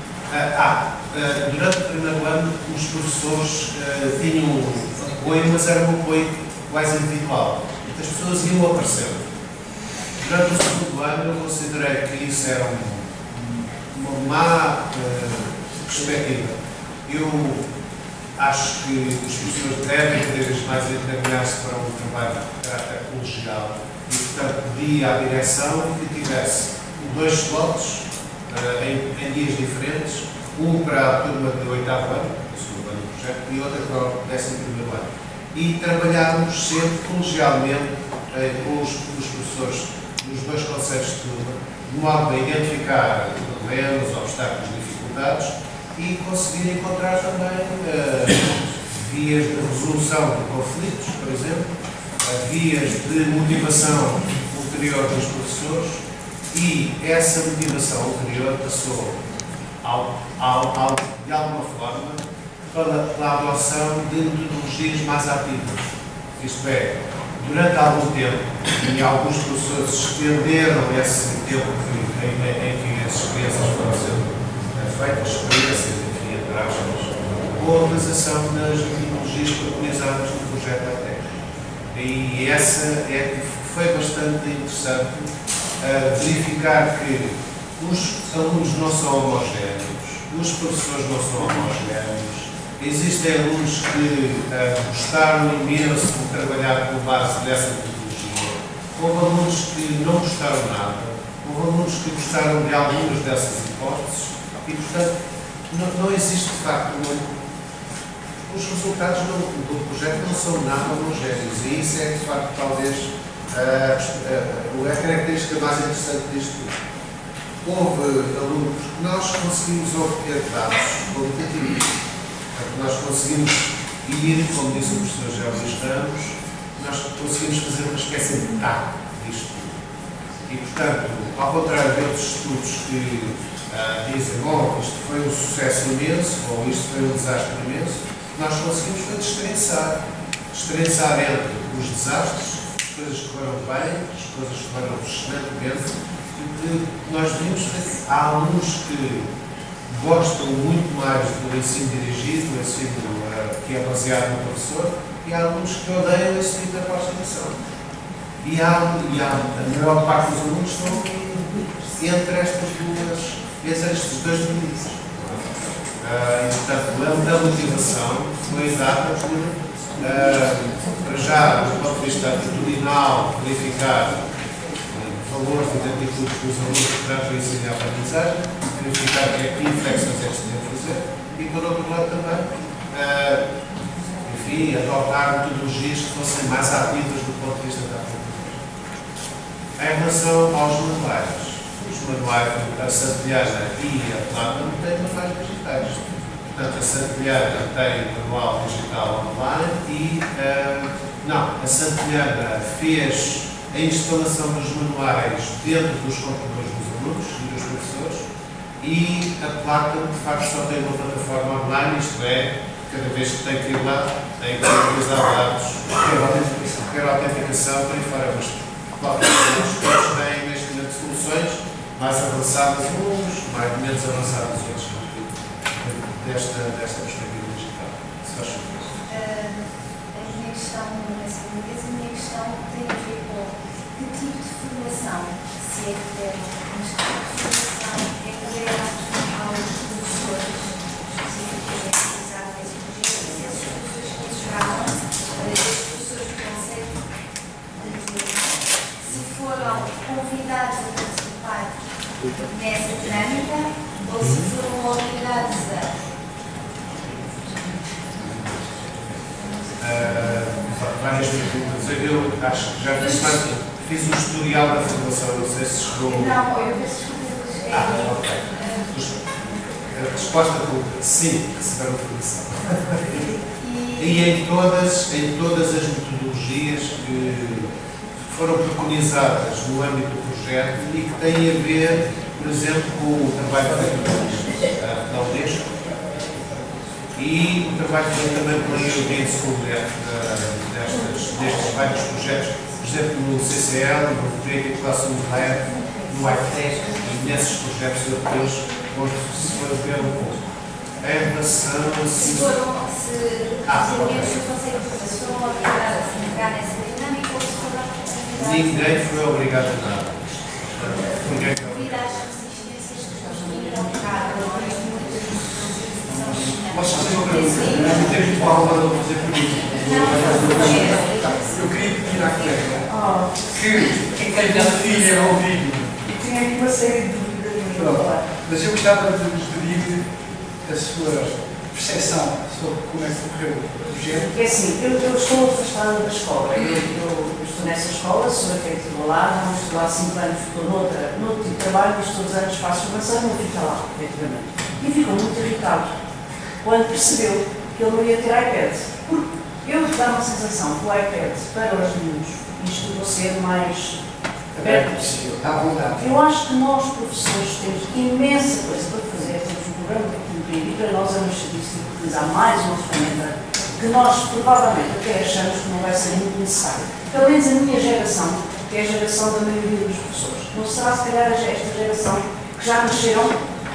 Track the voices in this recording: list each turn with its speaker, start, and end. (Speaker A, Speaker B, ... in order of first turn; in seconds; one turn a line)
Speaker A: 0.3-9.2
Speaker A: 10.2-17.6
Speaker A: 18.4-51.7
Speaker A: 52.2-59.2
Speaker A: 59.8-81.3
Speaker A: 81.9-85.2
Speaker A: 85.8-105.1
Speaker A: 105.7-107.4
Speaker A: 108.4-116.8
Speaker A: 117.6-121.8
Speaker A: 122.5-129.7
Speaker A: 130.5-140.0
Speaker A: 140.5-149.3
Speaker A: 149.9-157.6
Speaker A: 158.4-174.3
Speaker A: 174.9-183.4
Speaker A: 184.2-188.6
Speaker A: 189.8-208.2
Speaker A: 208.8-216.2
Speaker B: 216.0-216.9
Speaker A: 216.8-229.0
Speaker C: 229.1-247.0
Speaker C: 247.7-251.8
Speaker C: 252.4-255.9
Speaker A: 259.8-266.5
Speaker C: 263.0-263.3
Speaker C: 266.1-268.9
Speaker A: 267.7-269.2
Speaker A: 269.9-273.2
Speaker C: 273.4-274.2
Speaker A: 273.9-277.7
Speaker A: 278.2-285.9
Speaker A: 287.1-302.6
Speaker C: 295.8-297.0
Speaker C: 302.1-309.0
Speaker A: 303.6-304.4
Speaker A: 308.4-312.2
Speaker C: 311.0-318.3
Speaker B: 316.7-322.9
Speaker C: 319.8-321.6
Speaker D: 322.9-323.4
Speaker B: 323.5-325.9
Speaker D: 326.0-328.2
Speaker B: 327.7-330.1
Speaker B: 330.6-334.3
Speaker D: 334.1-345.9
Speaker D: 346.6-354.0
Speaker B: 354.5-356.1
Speaker D: 354.6-355.0
Speaker D: 355.9-373.4